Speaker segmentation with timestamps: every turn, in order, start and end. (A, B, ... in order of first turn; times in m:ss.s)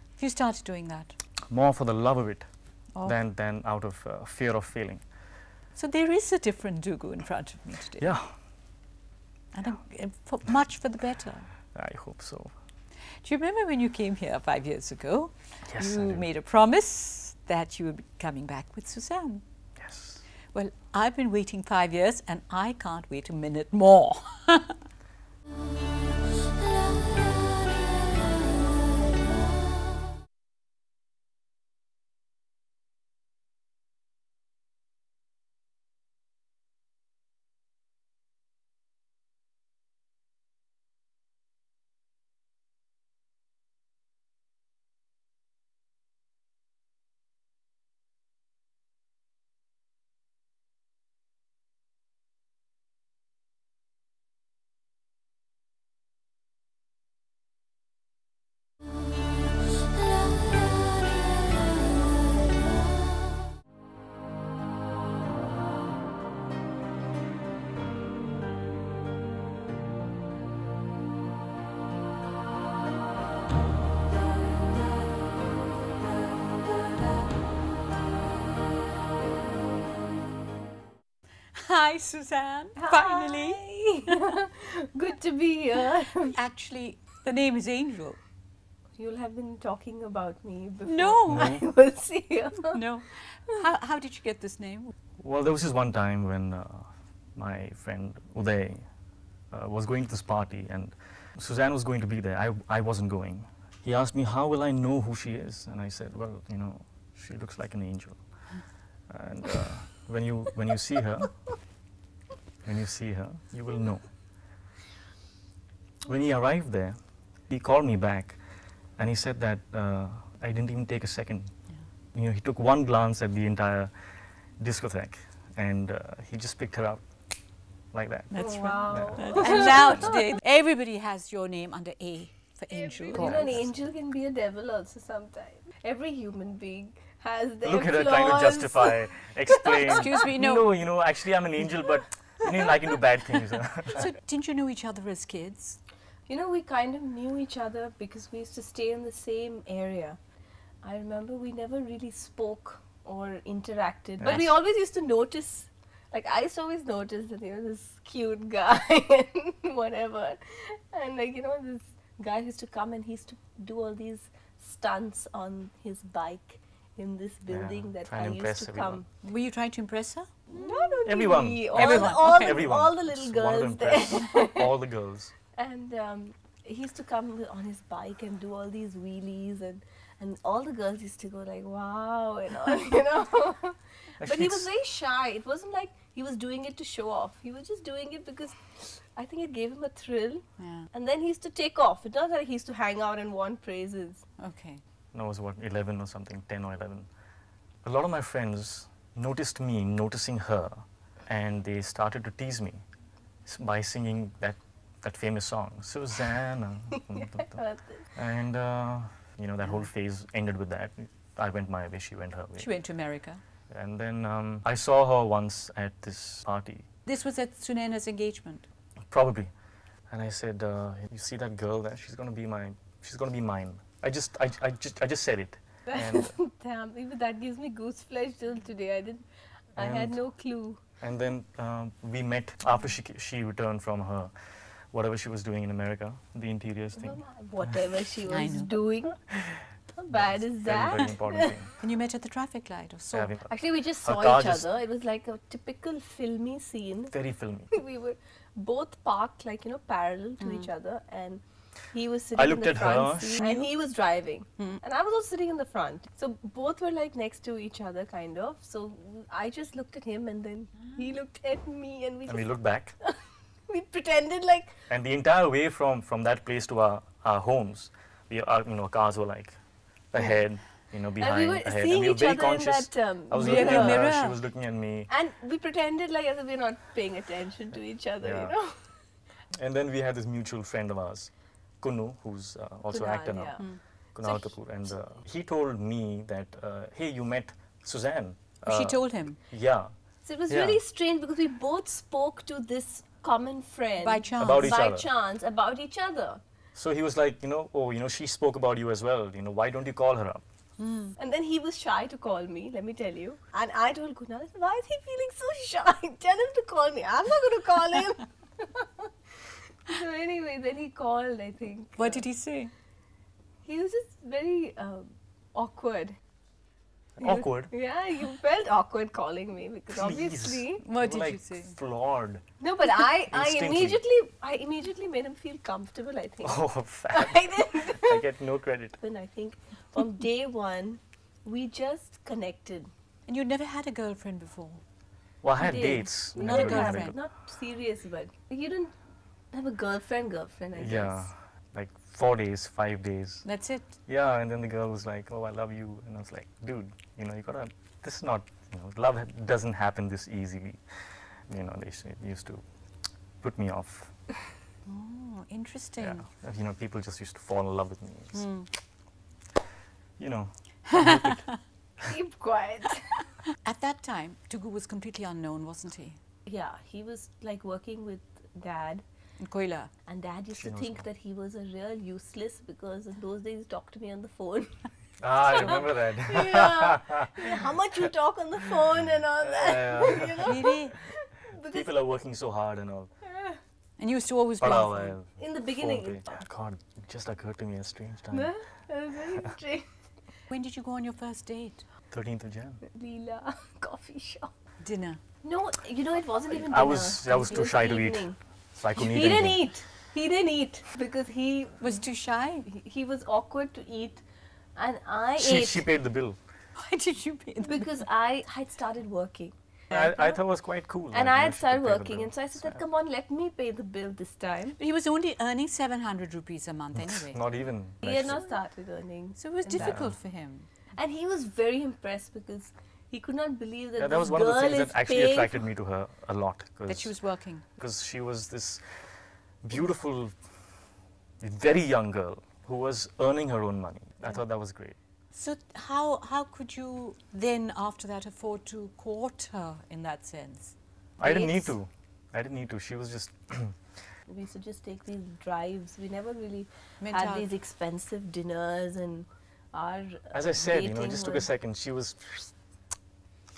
0:00.2-0:01.2 A
0:01.5-0:02.5 B
0:03.0-0:05.0 B
0:05.8-0:08.2 A
0:08.0-0:08.3 B
0:09.5-0:11.5 A
0:11.7-0:12.5 B
0:13.2-0:19.4 A
0:15.6-0:16.2 B
0:19.8-0:20.2 B
0:20.5-0:24.8 A
1:21.5-1:24.2 A
1:22.8-1:26.3 C
1:26.2-1:28.2 A
1:29.0-1:32.8 C
1:30.8-1:31.6 A
1:31.3-1:31.6 B
1:32.7-1:34.9 A
1:35.2-1:38.9 B
1:39.5-1:51.6 B
1:52.6-1:54.2 B
1:56.0-1:58.4 B
1:59.0-2:01.5 B
2:02.1-2:07.1 B
2:07.9-2:10.1 B
2:08.3-2:13.6 A
2:08.4-2:10.2 C
2:12.7-2:20.1 C
2:13.1-2:13.7 B
2:17.6-2:24.1 B
2:19.7-2:20.7 A
2:23.9-2:25.8 A
2:26.3-2:30.2 C
2:30.8-2:49.1 C
2:34.2-2:34.5 B
2:47.5-2:49.0 B
2:49.2-2:51.0 A
2:50.5-2:54.7 C
2:51.0-2:55.3 B
2:51.7-2:52.6 A
2:55.5-3:14.2 C
3:04.2-3:04.7 B
3:10.6-3:10.9 A
3:14.4-3:14.8 A
3:15.1-3:17.1 B
3:17.8-3:22.8 B
3:23.4-3:27.6 B
3:27.1-3:28.1 C
3:28.1-3:32.7 B
3:32.6-3:33.4 A
3:33.7-3:36.9 B
3:37.0-3:38.7 A
3:39.1-3:39.5 B
3:40.1-3:46.4 B
3:45.9-3:50.8 C
3:49.8-3:50.2 B
3:51.0-3:57.2 B
3:57.0-3:59.4 C
3:58.3-3:58.8 A
3:59.5-4:01.7 B
3:59.9-4:01.7 C
4:01.8-4:03.4 A
4:03.1-4:04.6 B
4:03.5-4:07.1 C
4:07.1-4:07.8 B
4:07.7-4:24.7 C
4:10.4-4:10.7 A
4:12.3-4:13.7 B
4:22.3-4:23.0 B
4:24.9-4:35.1 B
4:31.2-4:34.0 C
4:33.3-4:34.4 A
4:35.1-4:39.0 C
4:38.2-4:38.5 B
4:39.5-4:49.9 B
4:42.9-4:44.6 C
4:48.6-4:49.4 A
4:50.2-4:56.4 C
4:50.5-4:50.8 B
4:54.0-4:54.8 A
4:54.4-4:55.1 B
4:56.7-5:00.4 B
5:00.8-5:01.2 A
5:01.2-5:09.1 C
5:09.8-5:12.2 C
5:12.0-5:12.7 A
5:13.6-5:16.2 C
5:17.2-5:17.7 B
5:17.2-5:20.8 C
5:19.9-5:22.4 B
5:20.8-5:21.7 A
5:22.6-5:28.2 C
5:23.3-5:24.0 B
5:26.4-5:29.0 B
5:29.0-5:32.9 C
5:33.3-5:34.8 A
5:35.4-5:37.2 B
5:35.6-5:38.9 C
5:36.3-5:37.1 A
5:39.5-5:41.3 C
5:40.7-5:43.4 B
5:43.4-5:43.9 A
5:44.0-5:52.6 B
5:53.4-5:54.1 B
5:54.9-5:56.3 A
5:56.0-5:58.5 B
5:58.3-5:58.7 A
6:00.2-6:02.1 B
6:00.9-6:01.6 A
6:02.1-6:03.2 C
6:03.6-6:06.2 A
6:06.4-6:09.0 C
6:09.4-6:09.9 A
6:10.0-6:14.7 C
6:10.6-6:11.0 B
6:15.2-6:18.0 B
6:15.5-6:21.9 C
6:19.0-6:20.8 B
6:20.4-6:21.0 A
6:21.6-6:23.1 B
6:23.3-6:23.6 C
6:24.0-6:25.2 A
6:24.6-6:28.5 B
6:25.4-6:26.4 C
6:28.3-6:29.9 C
6:30.5-6:31.8 A
6:32.1-6:32.8 B
6:32.9-6:34.5 C
6:34.8-6:35.2 A
6:35.4-6:38.4 C
6:36.6-6:39.6 B
6:39.0-6:42.0 C
6:41.8-6:42.7 A
6:42.6-6:44.2 C
6:44.8-6:45.9 C
6:45.4-6:46.4 B
6:46.8-6:48.0 A
6:47.6-6:49.5 C
6:49.9-6:52.8 B
6:51.1-6:54.8 C
6:54.8-6:57.4 A
6:56.9-6:58.4 B
6:58.0-7:00.0 C
6:59.4-7:00.7 A
6:59.7-7:00.2 B
7:00.9-7:05.6 C
7:04.0-7:07.2 B
7:06.9-7:07.6 A
7:07.7-7:10.5 B
7:11.4-7:15.0 B
7:15.3-7:20.7 A
7:21.2-7:24.0 B
7:21.2-7:21.7 C
7:24.2-7:31.5 C
7:27.0-7:27.5 A
7:30.3-7:32.5 B